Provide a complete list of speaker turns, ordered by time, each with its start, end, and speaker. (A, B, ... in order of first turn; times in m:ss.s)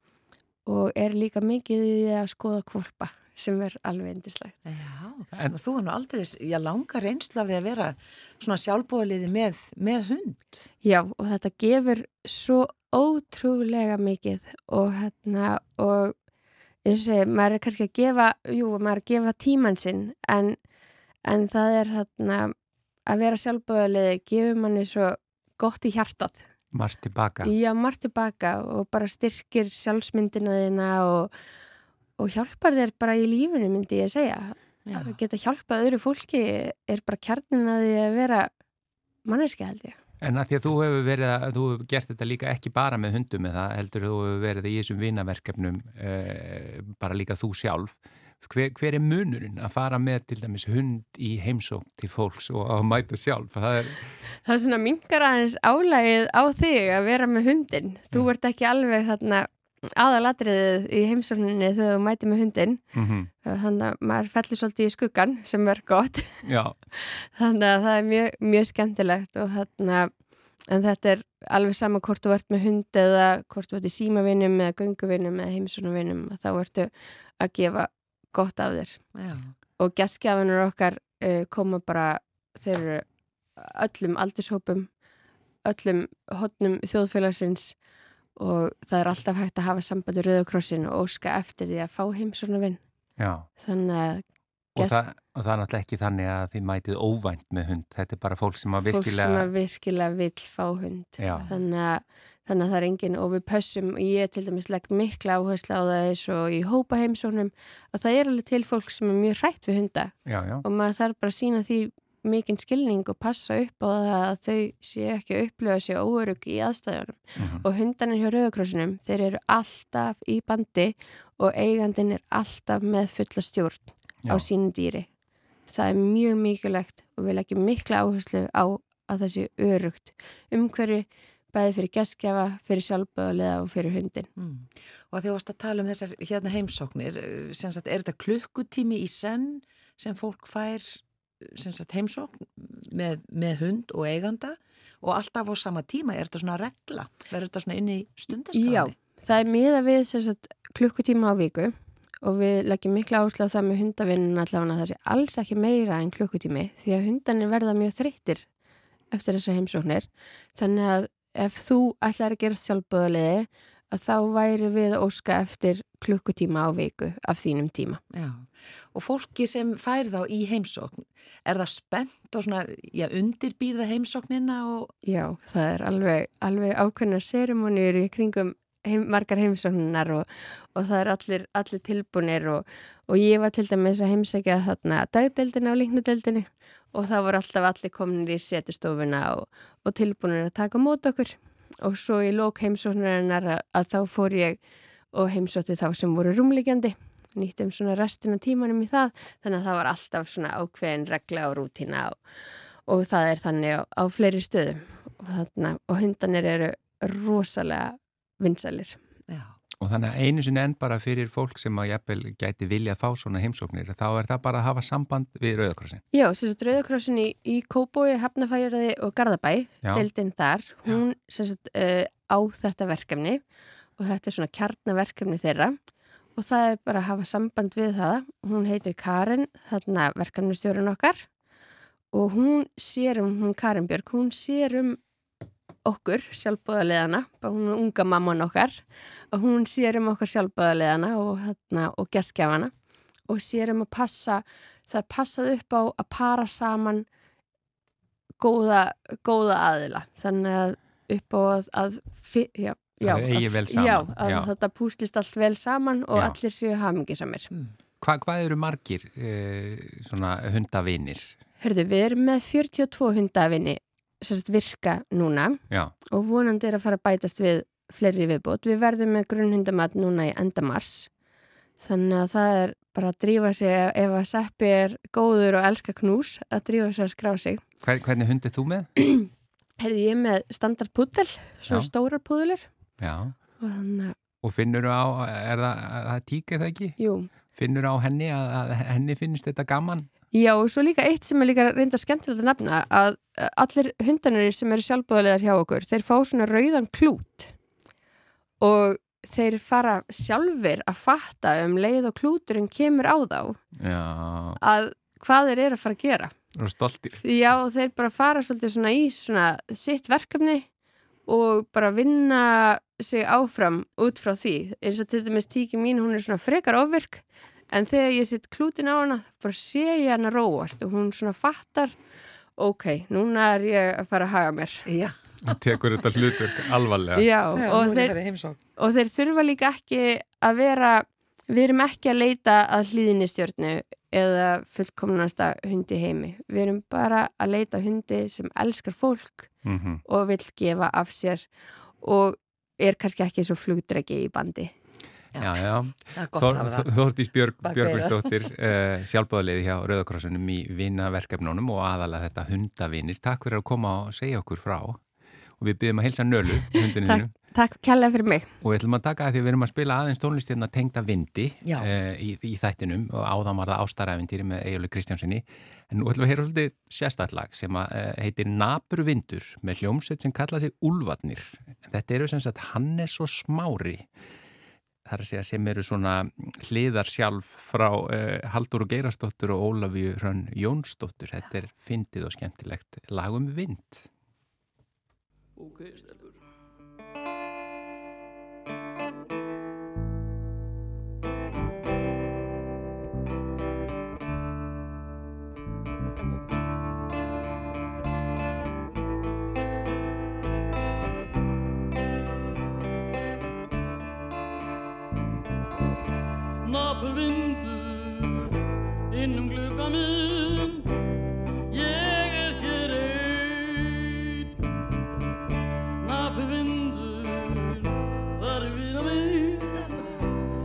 0:00.6-0:04.6 A
0:04.6-0:10.6 B
0:10.8-0:16.2 A
0:16.8-0:20.6 A
0:21.2-0:22.5 A
0:23.1-0:26.4 A
0:26.7-0:27.5 C
0:27.4-0:31.3 A
0:32.2-0:38.5 A
0:34.8-0:35.1 B
0:39.2-0:40.0 A
0:40.2-0:54.1 C
0:54.4-1:02.8 A
1:02.9-1:03.3 C
1:03.4-1:06.4 A
1:06.4-1:06.7 C
1:07.0-1:10.1 A
1:10.7-1:19.0 A
1:19.1-1:19.5 B
1:19.8-1:23.0 A
1:23.6-1:24.9 A
1:25.6-1:27.8 A
1:28.4-1:32.8 A
1:33.2-1:33.5 C
1:33.6-1:34.2 A
1:34.8-1:39.5 C
1:38.8-2:05.1 A
1:41.2-1:41.5 C
1:50.2-1:50.6 C
1:57.4-1:57.6 C
2:05.7-2:14.3 A
2:14.4-2:28.9 B
2:28.5-2:38.5 A
2:39.1-2:48.0 A
2:48.1-2:54.9 B
2:55.0-3:14.6 A
3:15.1-3:22.2 A
3:22.8-3:29.0 A
3:29.3-3:29.5 B
3:29.8-3:36.0 C
3:36.1-3:43.4 A
3:44.0-3:45.8 A
3:46.4-3:51.3 A
3:52.1-3:55.0 A
3:55.8-4:02.7 A
4:03.3-4:07.1 A
4:08.4-4:17.5 A
4:13.0-4:14.5 C
4:18.0-4:21.4 C
4:21.6-4:25.6 A
4:26.1-4:31.1 A
4:31.8-4:37.6 A
4:37.8-4:38.9 C
4:39.8-4:42.7 A
4:43.0-4:43.3 C
4:43.6-4:44.1 A
4:44.4-4:47.0 C
4:47.0-4:47.3 A
4:47.5-4:50.1 C
4:50.3-4:57.5 A
4:58.6-5:03.6 A
5:03.8-5:04.6 C
5:04.6-5:06.3 A
5:06.6-5:07.2 C
5:07.2-5:10.7 A
5:11.3-5:21.9 A
5:22.6-5:24.8 A
5:24.8-5:25.2 B
5:25.4-5:27.3 C
5:27.1-5:28.2 A
5:27.6-5:28.6 B
5:28.8-5:39.5 A
5:39.6-5:40.0 C
5:40.0-5:41.5 A
5:42.0-5:44.7 A
5:45.3-5:46.9 B
5:45.4-5:55.0 C
5:47.6-5:48.5 B
5:55.6-5:57.3 C
5:56.8-5:58.5 A
5:58.6-6:14.1 C
6:15.0-6:24.1 C
6:25.6-6:26.4 D
6:46.6-6:48.6 D
6:49.1-6:50.9 D
6:51.7-6:54.5 D
6:56.0-7:00.2 D